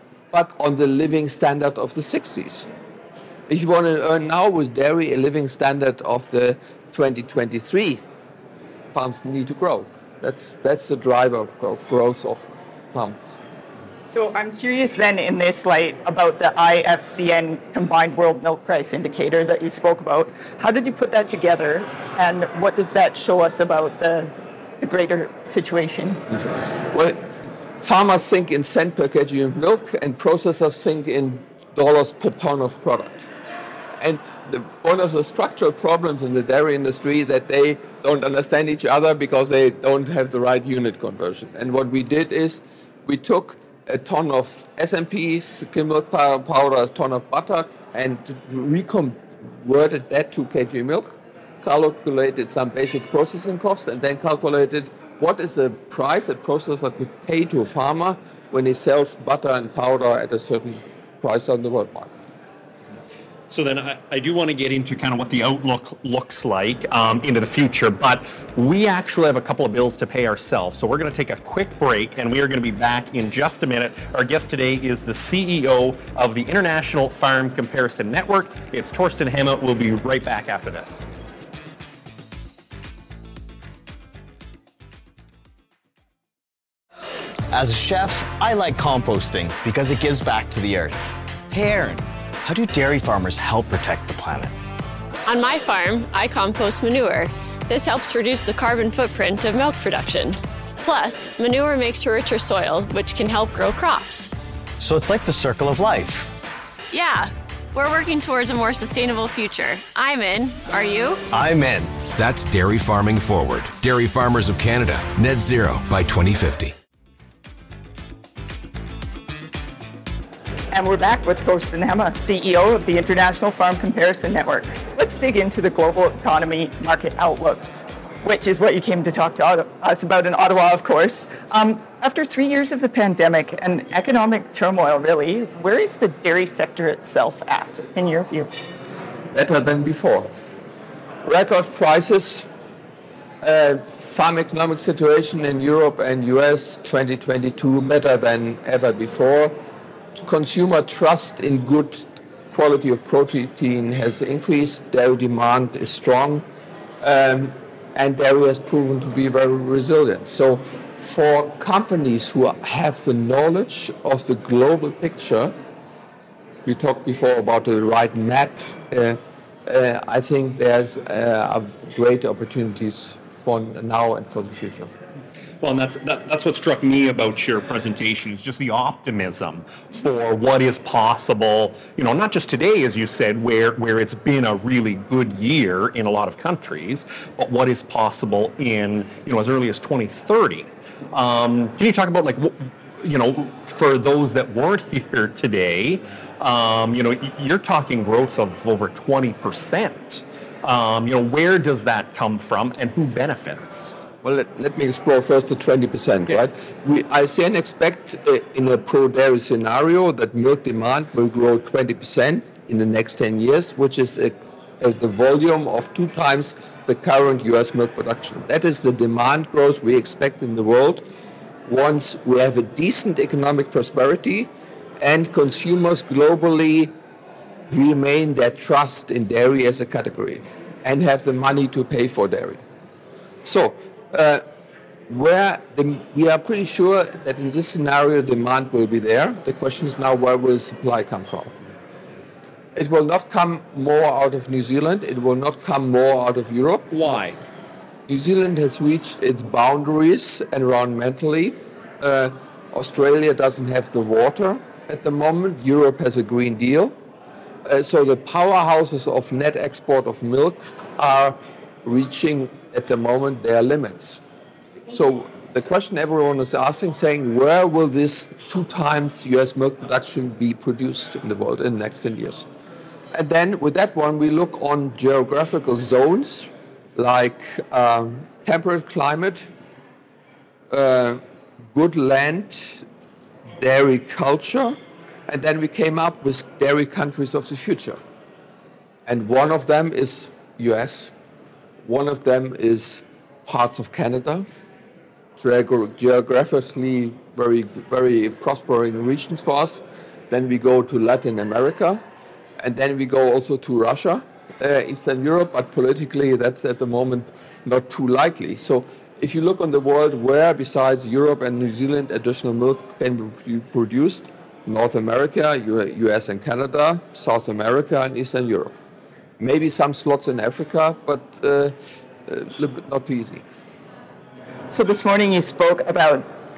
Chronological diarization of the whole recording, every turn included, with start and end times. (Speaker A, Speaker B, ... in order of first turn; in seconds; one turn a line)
Speaker A: 0.3-2.7
Speaker A: 3.5-8.0
Speaker A: 8.9-13.4
Speaker B: 14.1-26.2
Speaker A: 26.3-33.3
Speaker A: 34.0-62.1
Speaker C: 63.5-81.0
Speaker D: 87.5-94.5
Speaker E: 95.3-104.3
Speaker D: 104.8-106.3
Speaker E: 106.9-111.2
Speaker D: 111.3-112.0
Speaker F: 112.1-116.8
Speaker B: 120.7-127.7
Speaker B: 128.2-138.5
Speaker A: 139.3-140.3
Speaker A: 141.2-142.5
Speaker A: 143.4-149.6
Speaker A: 150.2-156.4
Speaker A: 157.0-165.6
Speaker A: 166.7-174.9
Speaker C: 175.6-203.9
Speaker A: 204.2-221.0
Speaker A: 221.7-224.5
Speaker A: 225.0-226.9
Speaker A: 227.7-232.6
Speaker A: 233.4-234.4
Speaker A: 235.1-241.5
Speaker A: 242.8-247.1
Speaker C: 246.9-247.4
Speaker A: 248.1-256.9
Speaker A: 257.6-264.2
Speaker A: 264.9-272.5
Speaker A: 273.1-279.5
Speaker A: 280.7-281.2
Speaker A: 281.7-282.9
Speaker A: 283.6-288.0
Speaker A: 289.1-291.1
Speaker A: 291.8-294.5
Speaker A: 295.4-302.0
Speaker A: 302.6-318.8
Speaker A: 319.4-323.4
Speaker B: 324.7-326.3